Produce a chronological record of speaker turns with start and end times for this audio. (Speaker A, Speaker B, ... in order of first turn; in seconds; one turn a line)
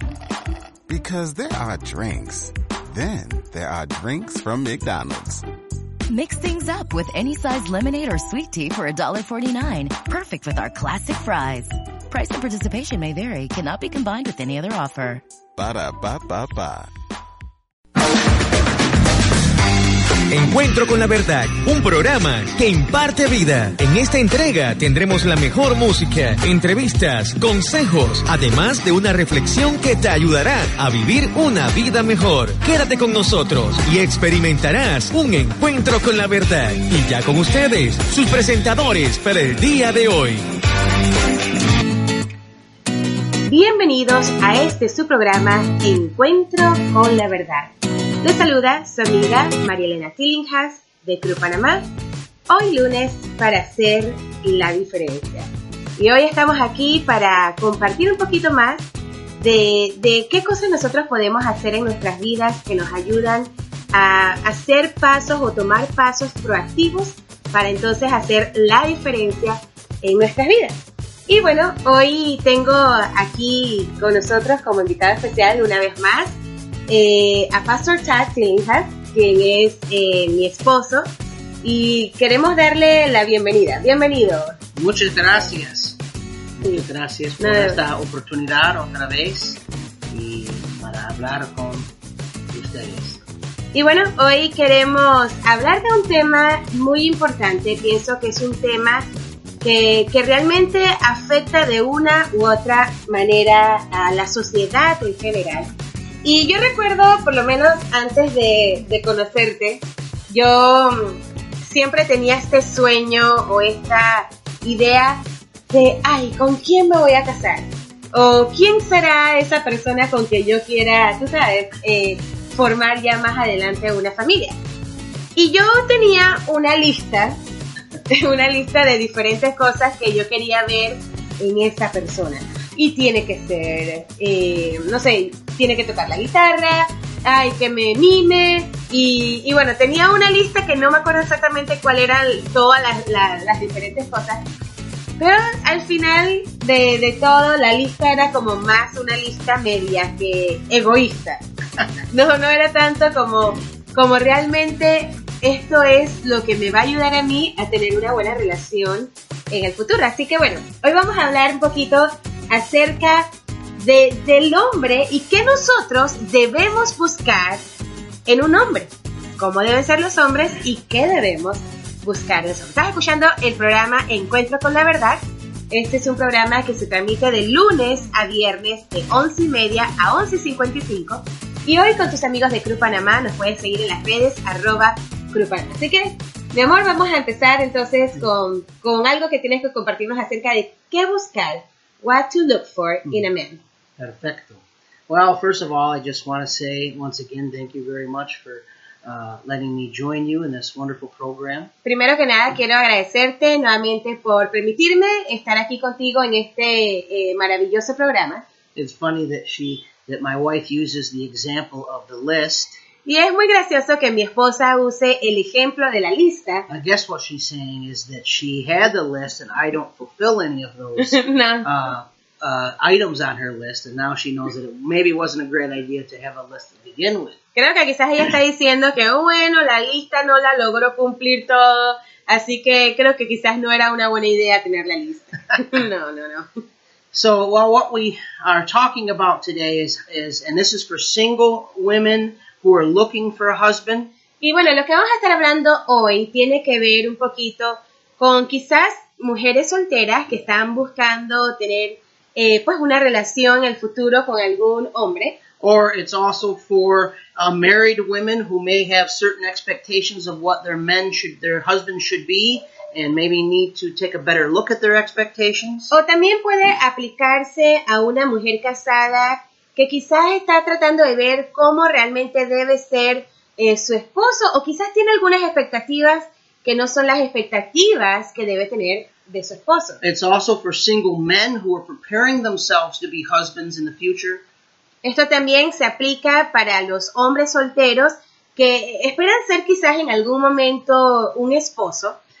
Speaker A: 0.9-5.4
Speaker B: 6.1-15.2
Speaker A: 15.6-16.9
Speaker C: 20.3-40.4
Speaker D: 43.5-51.9
Speaker D: 52.5-58.9
Speaker D: 59.4-76.4
Speaker D: 76.9-81.1
Speaker D: 81.6-84.6
Speaker E: 84.8-86.0
Speaker E: 86.6-89.6
Speaker D: 87.4-87.8
Speaker E: 90.1-91.9
Speaker E: 92.5-93.2
Speaker D: 93.7-99.0
Speaker D: 99.6-105.7
Speaker D: 106.2-124.5
Speaker D: 125.3-127.4
Speaker D: 128.1-144.4
Speaker D: 145.2-151.4
Speaker D: 152.1-163.3
Speaker D: 163.8-167.6
Speaker D: 168.3-193.6
Speaker E: 194.0-201.7
Speaker D: 201.8-208.4
Speaker E: 208.8-212.8
Speaker D: 213.0-216.6
Speaker E: 216.7-227.4
Speaker D: 221.0-221.7
Speaker D: 227.6-236.5
Speaker E: 237.1-244.1
Speaker D: 244.4-255.4
Speaker E: 255.6-265.9
Speaker D: 265.9-280.0
Speaker E: 280.0-284.4
Speaker D: 285.0-292.1